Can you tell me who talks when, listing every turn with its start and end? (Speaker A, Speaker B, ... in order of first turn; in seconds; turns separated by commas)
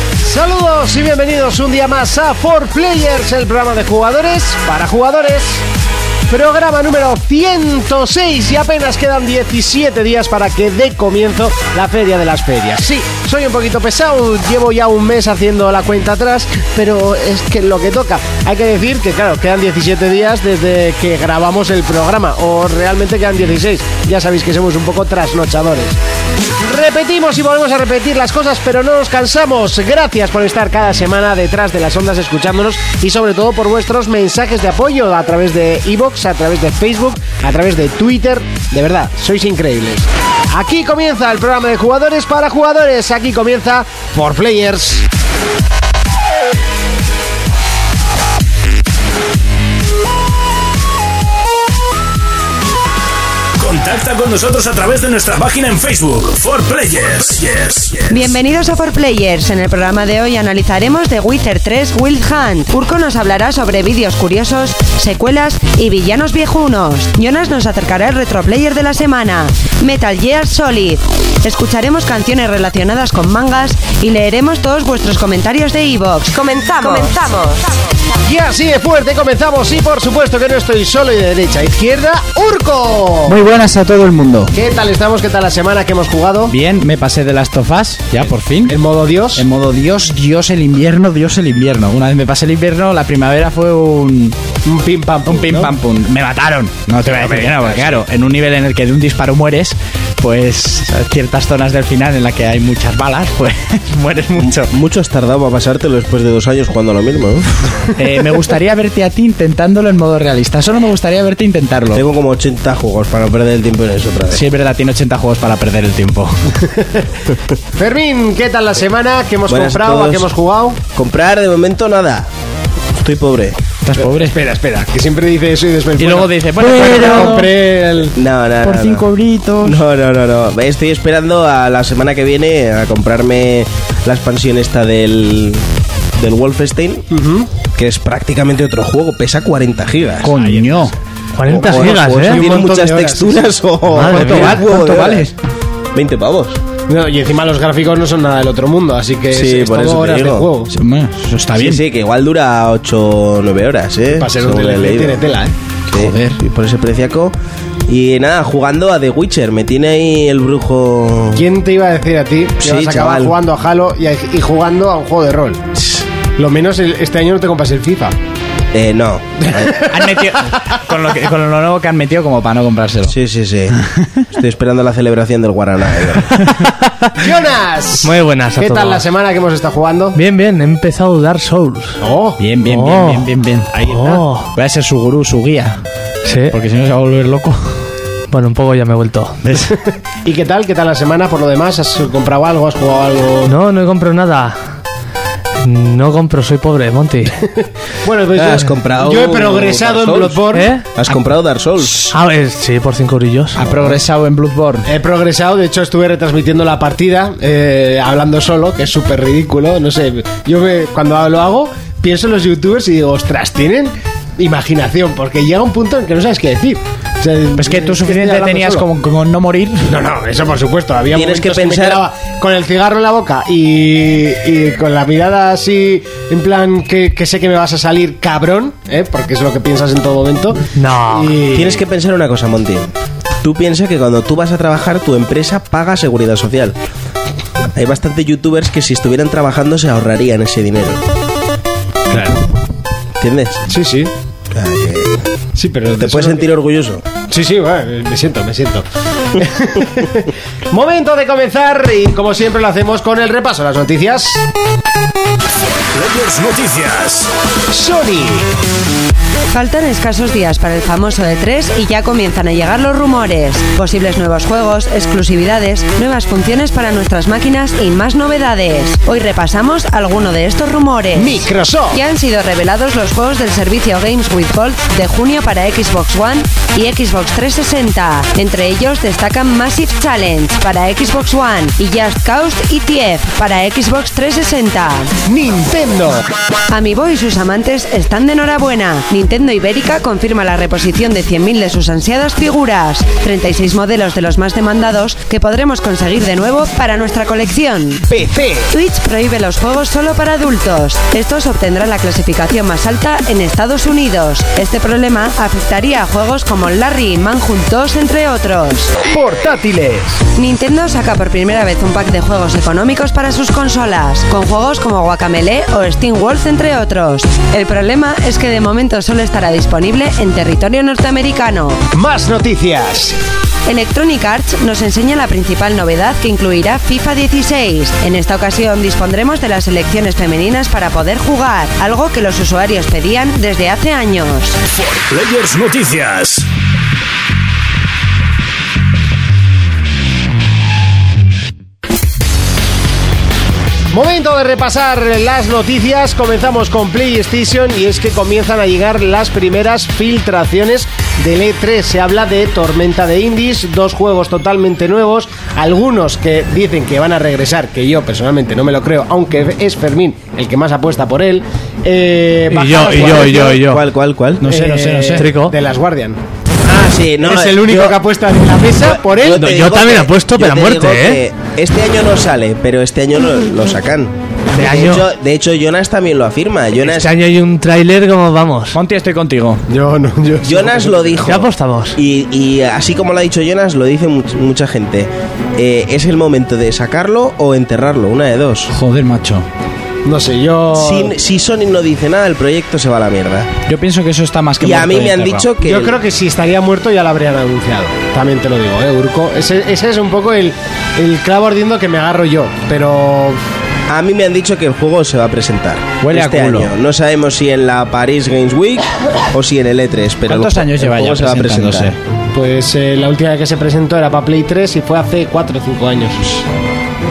Speaker A: 0.2-5.6, Speaker A: 6.3-26.0, Speaker A: 26.6-45.1, Speaker B: 53.6-58.3, Speaker C: 58.1-77.8, Speaker A: 78.2-83.4, Speaker D: 83.3-84.5, Speaker A: 84.5-86.5, Speaker D: 86.5-88.8, Speaker A: 88.7-89.5, Speaker D: 89.3-94.4, Speaker A: 94.7-95.7, Speaker D: 95.2-104.7, Speaker A: 97.1-98.0, Speaker E: 104.4-107.5, Speaker D: 108.0-112.0, Speaker E: 111.9-114.4, Speaker D: 114.3-116.5, Speaker A: 116.6-117.1, Speaker A: 117.8-120.8, Speaker E: 119.5-120.3, Speaker E: 120.9-122.3, Speaker E: 123.0-123.6, Speaker D: 123.8-124.4, Speaker A: 124.0-128.2, Speaker D: 126.0-127.5, Speaker E: 128.1-129.1, Speaker D: 128.6-129.8, Speaker E: 129.6-135.7, Speaker E: 136.2-137.1, Speaker A: 137.1-137.5, Speaker E: 137.8-140.4, Speaker D: 140.2-140.9, Speaker A: 140.4-140.8, Speaker F: 141.4-142.4, Speaker E: 141.5-145.3, Speaker A: 142.3-143.5, Speaker F: 143.9-144.6, Speaker D: 144.0-145.3, Speaker E: 145.9-146.6, Speaker A: 146.9-150.7, Speaker E: 149.3-150.5, Speaker D: 150.7-151.8, Speaker E: 151.6-155.2, Speaker A: 154.2-155.5, Speaker E: 155.9-157.3, Speaker D: 155.9-156.4, Speaker E: 157.9-161.4, Speaker A: 161.3-165.7, Speaker E: 162.6-163.4, Speaker A: 166.4-168.2, Speaker E: 168.7-169.9, Speaker A: 169.7-170.0, Speaker D: 169.8-173.2, Speaker E: 173.1-173.8, Speaker D: 173.8-174.2, Speaker E: 174.3-176.5, Speaker F: 176.7-177.1, Speaker A: 177.2-180.2, Speaker F: 178.0-179.1, Speaker F: 180.1-182.0, Speaker A: 182.0-182.4, Speaker D: 182.4-183.7, Speaker F: 182.7-183.3, Speaker A: 183.7-184.2, Speaker F: 183.9-184.5, Speaker D: 184.5-185.8, Speaker F: 186.2-186.6, Speaker D: 186.5-187.8, Speaker F: 188.3-189.4, Speaker A: 189.7-193.6, Speaker F: 193.5-194.6, Speaker F: 195.6-197.4, Speaker A: 198.0-200.7, Speaker E: 198.3-202.1, Speaker F: 200.5-200.8, Speaker D: 201.8-202.1, Speaker F: 202.1-203.6, Speaker D: 203.6-204.9, Speaker A: 204.8-218.9, Speaker D: 217.6-219.9, Speaker A: 219.9-231.8, Speaker E: 221.1-222.0, Speaker F: 230.8-231.4, Speaker E: 231.5-236.8, Speaker E: 237.7-241.0, Speaker A: 242.1-242.4, Speaker E: 243.2-243.7, Speaker A: 243.7-244.1, Speaker E: 244.5-245.3, Speaker A: 245.6-246.4, Speaker E: 246.0-247.1, Speaker A: 247.3-248.8, Speaker A: 249.4-254.5, Speaker B: 255.9-257.3, Speaker A: 257.7-258.5, Speaker C: 259.5-285.1, Speaker A: 271.1-272.0, Speaker A: 285.3-286.2, Speaker C: 286.7-298.1, Speaker A: 298.1-298.8, Speaker C: 298.7-309.0, Speaker A: 309.1-310.2, Speaker C: 310.3-321.8, Speaker A: 321.9-323.2, Speaker C: 323.7-334.6, Speaker B: 334.7-336.5, Speaker A: 343.9-363.5, Speaker F: 362.5-363.8, Speaker E: 362.9-364.4, Speaker D: 363.0-363.8, Speaker D: 364.4-365.3, Speaker A: 364.4-366.2, Speaker F: 365.2-365.6, Speaker E: 366.7-368.0, Speaker A: 367.2-369.7, Speaker E: 368.8-377.1, Speaker F: 369.3-371.2, Speaker F: 374.5-375.1, Speaker F: 376.9-378.8, Speaker D: 378.7-379.6, Speaker A: 379.7-381.2, Speaker E: 380.4-388.7, Speaker F: 381.3-382.0, Speaker D: 388.7-389.5, Speaker A: 390.1-391.1, Speaker E: 390.7-393.5, Speaker D: 393.7-395.5, Speaker E: 394.6-396.0, Speaker A: 395.6-403.4, Speaker E: 403.9-411.9, Speaker D: 406.0-406.7, Speaker D: 410.3-412.0, Speaker A: 412.3-416.5